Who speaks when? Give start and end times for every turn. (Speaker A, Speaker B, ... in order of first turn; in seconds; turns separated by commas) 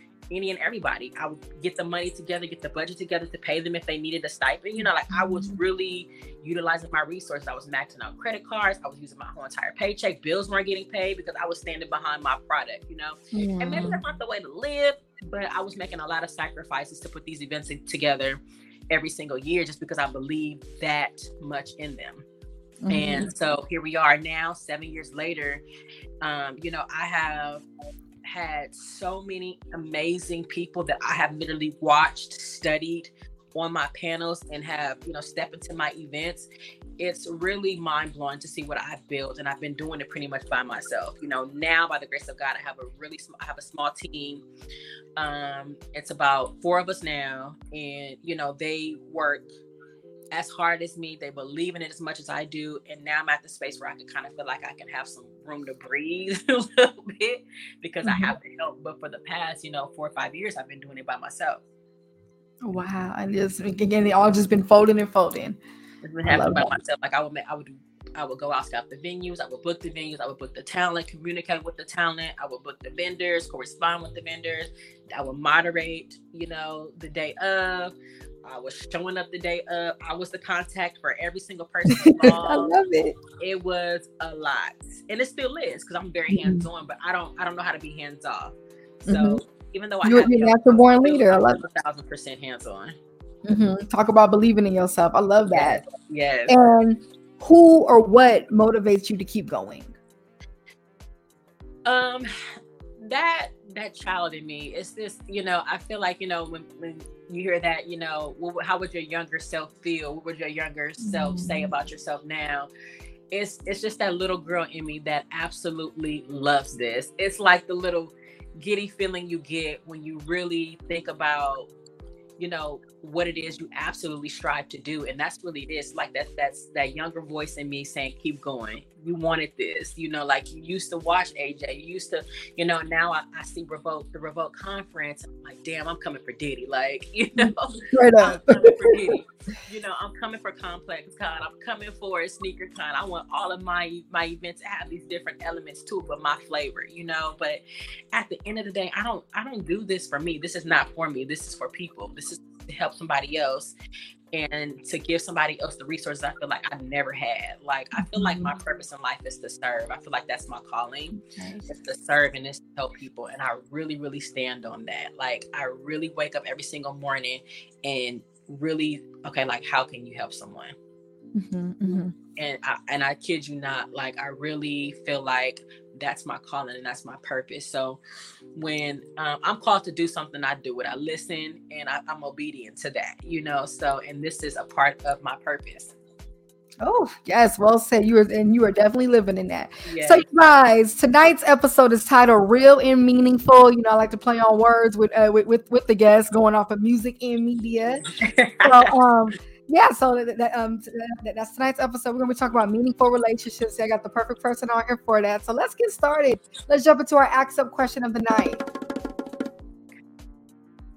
Speaker A: 0.3-22.2, Speaker B: 5.1-5.6, Speaker B: 13.3-14.0, Speaker B: 22.8-23.3, Speaker A: 22.9-25.6, Speaker A: 26.2-27.6, Speaker A: 28.2-44.4, Speaker A: 45.2-49.5, Speaker A: 50.3-61.6, Speaker B: 58.0-58.3, Speaker B: 62.6-65.6, Speaker A: 66.0-77.9, Speaker B: 66.2-66.7, Speaker A: 78.4-82.7, Speaker B: 81.9-83.2, Speaker A: 83.4-88.5, Speaker B: 86.3-86.7, Speaker B: 89.1-89.4, Speaker A: 89.1-93.0, Speaker B: 90.0-91.6, Speaker B: 93.5-95.8, Speaker A: 95.5-96.5, Speaker B: 96.5-100.0, Speaker A: 101.8-102.3, Speaker A: 103.0-112.7, Speaker B: 111.0-111.7, Speaker A: 113.3-121.7, Speaker A: 122.4-147.6, Speaker B: 137.4-139.2, Speaker A: 148.1-153.7, Speaker A: 154.3-170.7, Speaker B: 158.0-158.5, Speaker B: 161.1-161.7, Speaker B: 171.3-172.1, Speaker A: 172.4-178.0, Speaker A: 178.6-185.9, Speaker B: 186.8-198.1, Speaker A: 189.8-190.2, Speaker A: 198.1-198.9, Speaker B: 198.6-208.6